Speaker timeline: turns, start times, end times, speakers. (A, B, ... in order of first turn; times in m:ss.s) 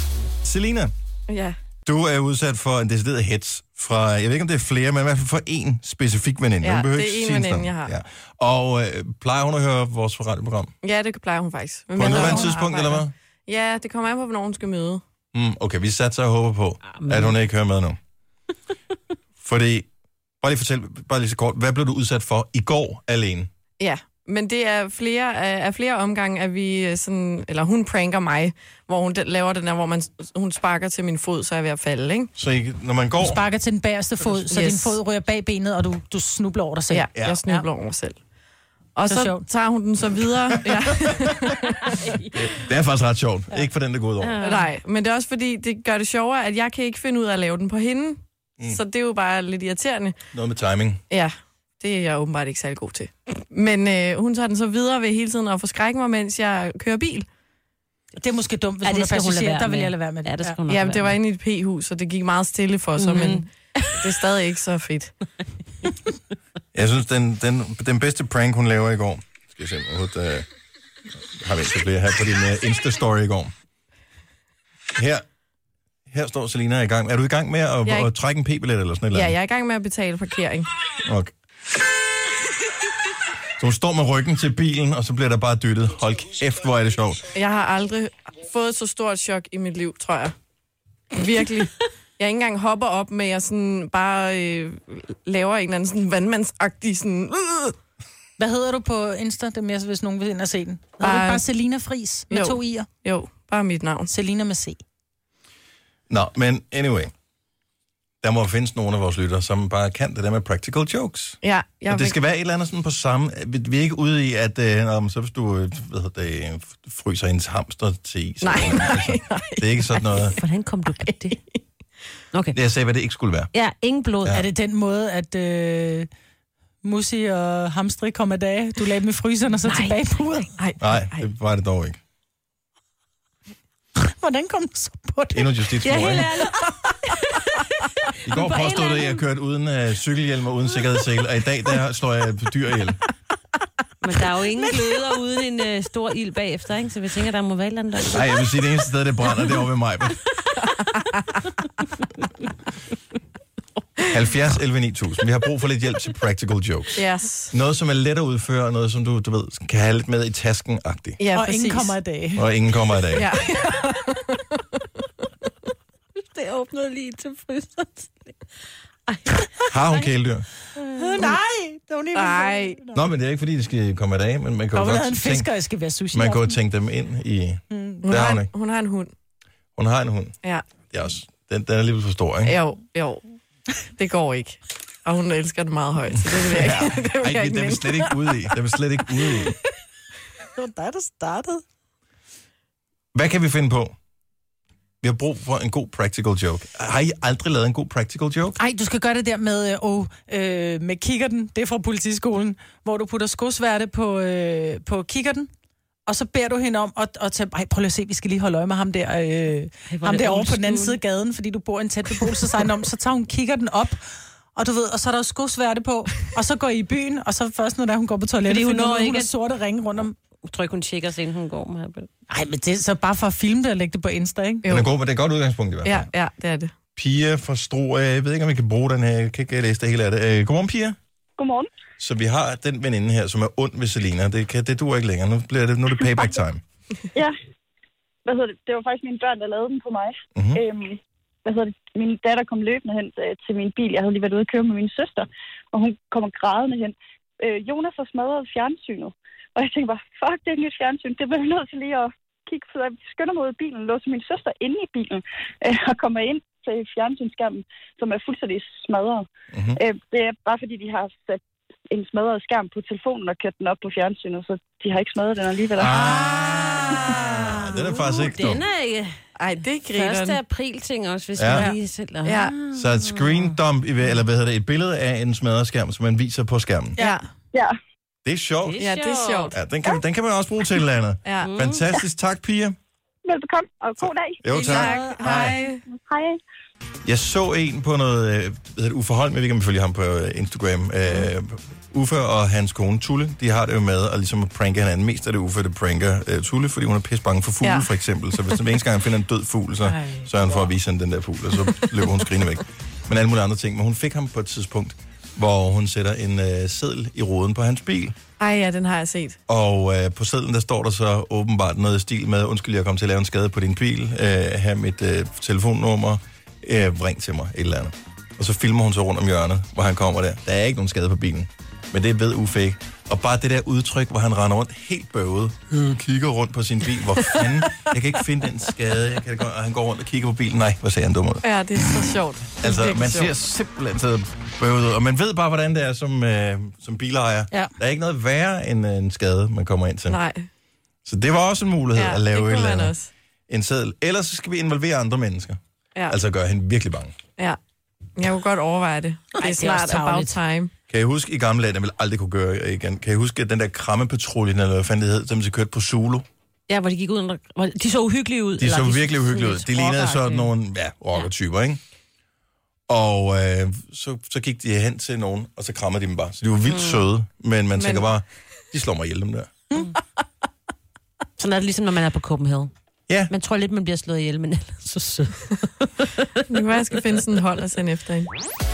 0:00.4-0:00.9 A
0:01.3-0:01.6 B
0:01.8-0:10.7 A
0:06.6-0:08.0 B
0:10.8-0:15.0 B
0:12.0-0:13.1 A
0:15.3-0:18.0 A
0:17.0-0:17.4 C
0:19.4-0:19.9 A
0:20.4-0:23.5 A
0:23.8-0:32.3 B
0:32.4-0:33.4 A
0:33.2-0:37.6 D
0:34.3-0:35.0 B
0:36.9-0:38.2 B
0:39.0-0:41.9 B
0:39.0-0:39.5 D
0:42.3-0:44.4 A
0:44.2-0:44.7 C
0:44.4-0:50.2 B
0:50.3-0:51.0 A
0:51.1-0:57.2 B
0:58.2-1:00.6 D
0:58.8-1:01.2 C
1:00.7-1:05.1 B
1:03.0-1:04.0 C
1:06.7-1:10.5 A
1:11.4-1:13.5 A
1:15.0-1:15.2 A
1:16.1-1:19.3 A
1:19.1-1:20.7 B
1:21.0-1:21.3 A
1:23.6-1:27.2 A
1:27.3-1:30.4 B
1:31.1-1:37.8 B
1:38.4-1:42.9 D
1:41.0-1:41.5 B
1:42.3-1:44.1 B
1:44.1-1:44.8 D
1:46.1-1:47.1 A
1:48.2-2:00.4 A
1:51.4-1:52.2 B
1:58.4-2:00.3 B
2:00.3-2:01.4 C
2:01.0-2:01.6 B
2:02.3-2:02.6 C
2:02.5-2:03.5 A
2:03.5-2:04.4 C
2:04.3-2:06.1 D
2:06.8-2:10.5 D
2:09.6-2:10.0 C
2:10.6-2:11.3 B
2:10.8-2:12.0 A
2:14.0-2:15.8 D
2:15.3-2:16.4 A
2:15.8-2:16.9 C
2:16.4-2:17.4 D
2:18.3-2:23.0 A
2:18.3-2:19.2 C
2:24.0-2:28.2 C
2:28.1-2:30.2 A
2:30.7-2:31.2 B
2:34.1-2:41.2 A
2:37.0-2:37.5 B
2:41.2-2:42.0 B
2:41.4-2:42.5 D
2:42.4-2:43.3 A
2:43.1-2:44.4 B
2:46.2-2:48.4 C
2:49.1-2:50.1 C
2:49.7-2:50.5 A
2:50.8-2:51.2 C
2:50.8-2:53.0 D
2:52.2-2:52.8 B
2:52.9-2:55.5 A
2:54.7-2:56.6 D
2:56.1-2:58.5 A
2:57.7-2:58.0 D
2:58.0-2:59.1 B
2:59.8-3:00.4 A
3:00.9-3:02.6 A
3:02.5-3:03.3 B
3:03.8-3:08.3 B
3:06.5-3:09.6 A
3:10.5-3:11.6 D
3:13.1-3:13.9 A
3:15.0-3:18.6 A
3:18.6-3:25.5 D
3:26.1-3:34.0 D
3:29.9-3:31.0 C
3:34.5-3:40.2 D
3:38.5-3:39.3 C
3:40.4-3:42.1 C
3:42.3-3:44.6 D
3:44.6-3:45.0 B
3:44.7-3:46.1 A
3:45.8-3:46.7 B
3:47.0-3:51.0 A
3:51.4-3:51.7 E
3:52.0-3:56.6 A
3:58.3-4:26.1 E
4:00.4-4:00.6 A
4:19.5-4:19.8 A
4:25.8-4:28.6 A
4:26.1-4:32.6 C
4:29.4-4:30.4 B
4:31.4-4:31.7 A
4:31.5-4:31.8 D
4:32.2-4:32.6 B
4:32.7-4:37.0 A
4:33.2-4:33.5 C
4:37.0-4:37.2 B
4:38.2-4:38.9 A
4:38.6-4:39.6 C
4:38.8-4:39.6 B
4:39.5-4:42.8 A
4:41.2-4:41.5 B
4:41.4-4:41.9 C
4:43.2-4:45.0 E
4:44.4-4:45.6 A
4:44.5-4:45.5 D
4:44.6-4:45.8 B
4:45.9-4:46.4 E
4:47.0-5:08.2 A
4:57.6-4:58.6 B
4:59.9-5:00.2 D
5:08.4-5:09.4 B
5:09.5-5:31.4 A
5:31.4-5:33.4 B
5:32.6-5:40.2 A
5:40.1-5:40.5 B
5:41.1-5:43.0 A
5:42.0-5:43.1 B
5:43.5-5:47.1 A
5:48.2-5:50.7 B
5:49.4-5:50.1 C
5:49.8-5:50.3 D
5:50.9-5:56.2 A
5:56.7-6:00.5 C
5:58.6-6:01.8 A
6:02.9-6:09.6 A
6:06.7-6:07.0 C
6:07.8-6:08.1 B
6:11.4-6:12.7 C
6:13.3-6:16.4 C
6:16.5-6:18.3 B